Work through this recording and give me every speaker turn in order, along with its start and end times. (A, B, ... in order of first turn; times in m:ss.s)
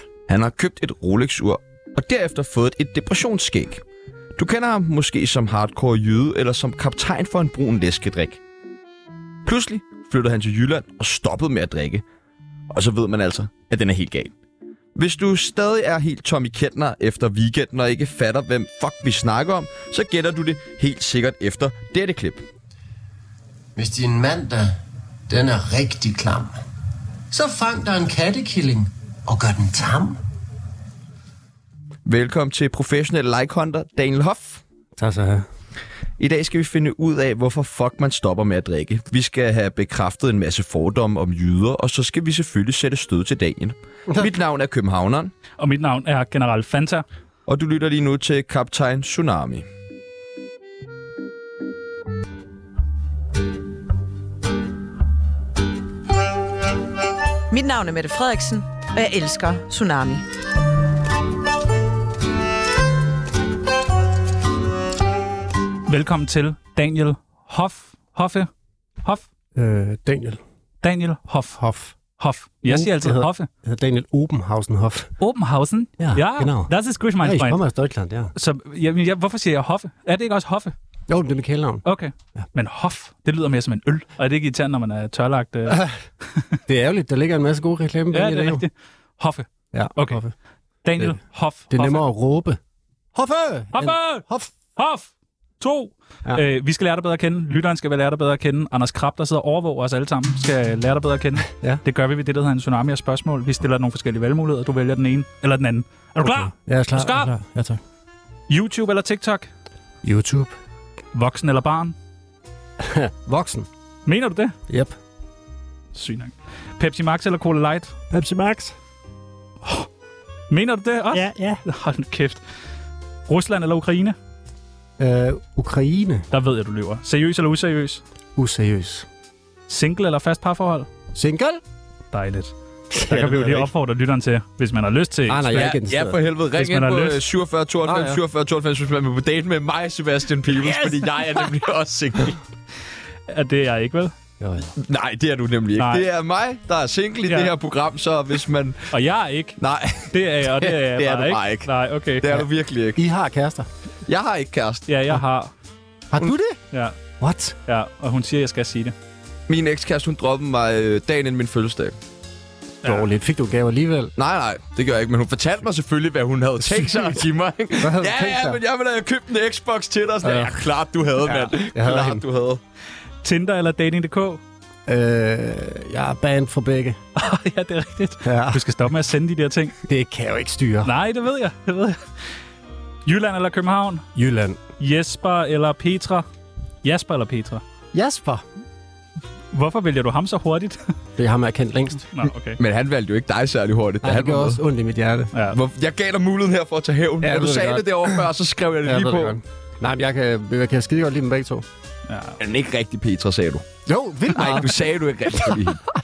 0:00.3-0:03.8 A
0:04.4-0:08.4 A
0:09.4-0:12.0 A
0:12.7-0:14.3 A
0:15.0-0:22.4 A
0:23.8-0:24.7 B
0:25.4-0:26.5 B
0:27.7-0:30.2 B
0:32.1-0:34.6 A
0:35.0-0:35.5 C
0:36.2-0:45.3 A
0:45.6-0:47.0 D
0:47.5-0:49.7 A
0:57.5-1:00.2 E
1:05.9-1:08.5 D
1:09.6-1:10.4 C
1:10.8-1:11.6 D
1:11.6-1:11.9 C
1:12.2-1:13.5 D
1:12.7-1:15.1 C
1:15.2-1:17.6 D
1:16.0-1:18.3 C
1:18.4-1:20.8 D
1:21.1-1:21.8 C
1:21.8-1:25.9 D
1:26.7-1:28.6 C
1:28.1-1:30.2 D
1:29.7-1:30.4 C
1:30.8-1:32.0 D
1:31.7-1:32.6 C
1:33.1-1:34.5 C
1:33.7-1:47.3 D
1:46.2-1:47.8 C
1:48.5-1:49.5 D
1:50.0-1:50.6 C
1:51.1-1:52.0 D
1:52.8-1:53.7 C
1:54.1-1:54.6 D
1:55.9-1:58.0 D
1:58.1-1:58.8 C
2:00.5-2:02.4 D
2:01.1-2:01.6 C
2:03.3-2:04.2 D
2:05.0-2:06.3 C
2:06.3-2:08.0 D
2:08.4-2:09.1 C
2:09.7-2:10.9 D
2:11.2-2:11.6 C
2:12.1-2:15.6 D
2:12.9-2:13.7 C
2:15.3-2:16.2 C
2:15.5-2:22.4 A
2:16.5-2:17.2 D
2:17.8-2:18.2 C
2:20.5-2:21.5 D
2:23.3-2:24.1 D
2:24.4-2:24.7 C
2:24.8-2:28.9 A
2:25.8-2:26.1 D
2:27.3-2:27.5 D
2:28.9-2:29.6 D
2:29.6-2:33.0 A
2:30.1-2:32.4 D
2:33.0-2:33.7 C
2:34.1-2:34.9 A
2:34.9-2:35.5 D
2:36.1-2:36.6 C
2:37.2-2:37.6 C
2:37.7-2:39.0 D
2:39.5-2:42.0 A
2:42.8-2:44.1 C
2:44.2-2:52.6 A
2:46.6-2:47.2 C
2:47.8-2:48.6 C
2:50.2-2:50.6 C
2:51.2-2:52.2 C
2:53.2-2:54.4 D
2:54.9-2:57.0 C
2:57.2-2:59.8 D
2:58.2-2:58.6 C
2:59.9-3:00.9 C
3:00.8-3:02.0 D
3:03.1-3:04.1 D
3:04.2-3:04.6 C
3:04.8-3:06.3 D
3:06.8-3:07.6 D
3:07.9-3:08.4 C
3:09.5-3:10.9 D
3:11.2-3:12.1 C
3:12.1-3:12.6 D
3:12.5-3:14.6 A
3:14.0-3:15.3 C
3:15.5-3:19.4 A
3:17.2-3:18.2 C
3:18.8-3:21.6 C
3:22.1-3:22.4 D
3:22.4-3:23.7 A
3:23.9-3:24.8 C
3:24.3-3:25.8 A
3:25.4-3:25.7 C